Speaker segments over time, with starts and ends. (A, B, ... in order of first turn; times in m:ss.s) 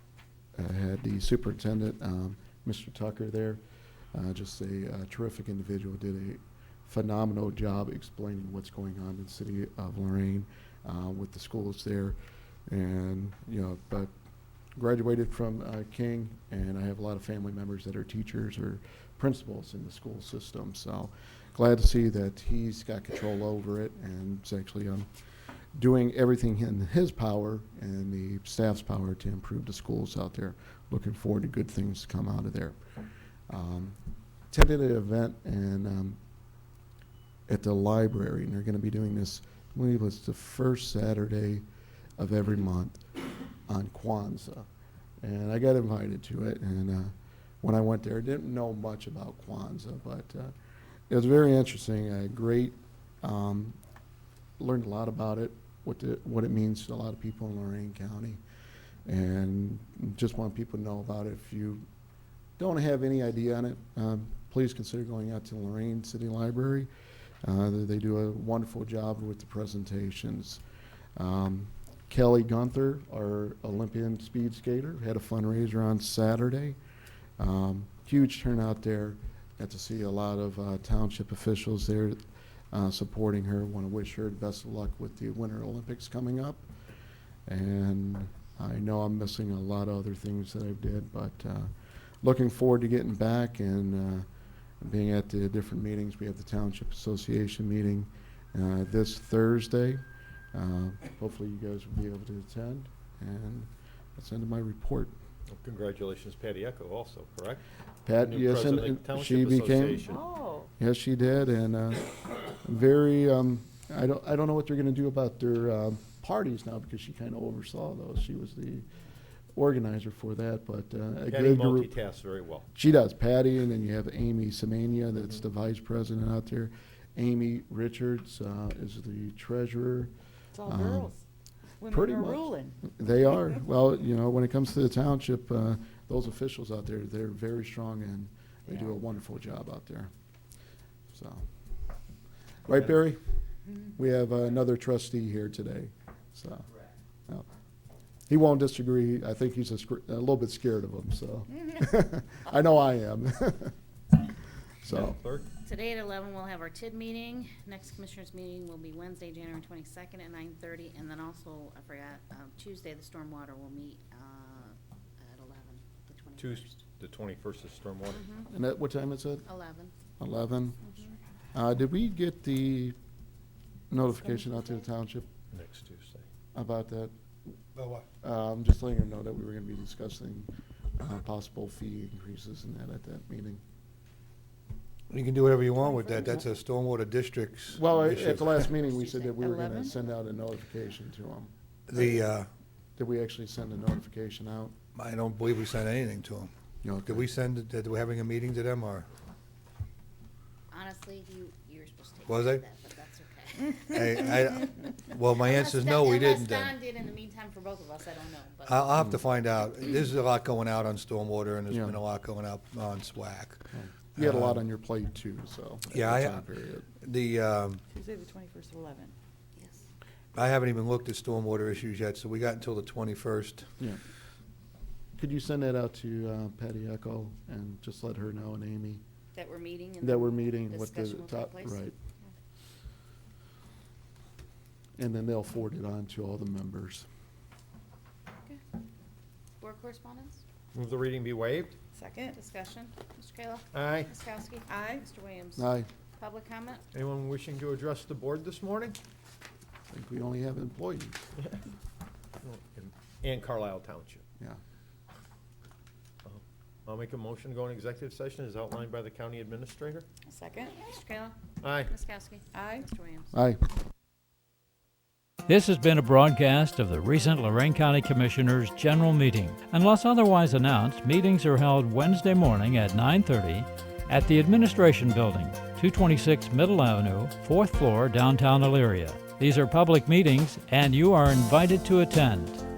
0:00.6-0:03.6 A
0:04.1-0:12.2 A
0:12.7-0:14.1 A
0:14.8-0:25.1 A
0:25.8-0:32.8 A
0:33.5-0:34.0 A
0:34.5-0:36.2 A
0:37.5-0:41.6 A
0:42.2-0:43.0 A
0:43.7-0:44.7 A
0:45.2-0:50.5 A
0:51.1-0:53.8 A
0:54.6-0:58.4 A
0:59.1-1:01.8 A
1:02.6-1:06.9 A
1:07.4-1:10.6 A
1:11.2-1:16.8 A
1:17.4-1:22.2 A
1:22.7-1:26.7 A
1:27.5-1:31.7 A
1:32.2-1:34.3 A
1:34.8-1:45.2 A
1:45.5-1:47.6 B
1:48.0-1:50.0 A
1:48.2-1:50.2 B
1:50.0-1:50.7 C
1:50.8-1:58.9 A
1:59.6-2:01.9 A
2:01.2-2:02.7 B
2:02.7-2:10.1 A
2:10.6-2:11.2 C
2:10.6-2:11.1 A
2:11.8-2:12.8 C
2:11.9-2:20.1 A
2:21.1-2:21.5 A
2:22.6-2:23.2 A
2:23.9-2:26.7 A
2:28.3-2:33.8 A
2:34.8-2:35.2 A
2:34.9-2:35.5 B
2:35.6-2:46.8 D
2:46.4-2:48.2 B
2:48.1-2:48.5 D
2:48.5-2:49.4 A
2:49.4-2:49.9 D
2:50.2-2:50.8 A
2:50.8-2:51.2 D
2:51.5-2:53.0 A
2:53.9-2:55.3 A
2:55.5-2:56.2 B
2:56.5-2:57.1 A
2:57.7-2:58.1 E
2:58.2-3:03.6 A
3:05.1-3:08.7 E
3:07.7-3:11.5 A
3:08.9-3:09.9 C
3:11.9-3:12.5 E
3:13.0-3:14.7 A
3:14.9-3:16.5 E
3:16.8-3:17.2 A
3:17.0-3:19.1 E
3:20.7-3:24.3 D
3:22.3-3:22.6 E
3:23.8-3:26.8 E
3:25.4-3:28.8 D
3:28.6-3:34.6 E
3:31.7-3:32.0 A
3:33.7-3:36.9 A
3:35.9-3:36.4 E
3:37.0-3:37.8 E
3:37.9-3:39.1 C
3:39.6-3:39.8 D
3:40.3-3:43.7 E
3:45.2-3:49.0 A
3:49.3-3:52.3 D
3:50.0-3:51.9 A
3:55.0-3:57.0 A
3:59.6-4:00.4 D
4:00.7-4:01.8 B
4:01.9-4:02.4 C
4:02.3-4:06.8 D
4:03.7-4:04.1 B
4:04.7-4:05.0 C
4:05.6-4:05.9 A
4:06.9-4:09.0 B
4:09.9-4:11.2 A
4:12.4-4:14.2 B
4:16.2-4:20.1 B
4:20.2-4:20.8 C
4:20.6-4:23.3 D
4:21.6-4:21.9 B
4:22.5-4:22.8 C
4:23.3-4:23.6 A
4:25.5-4:42.6 F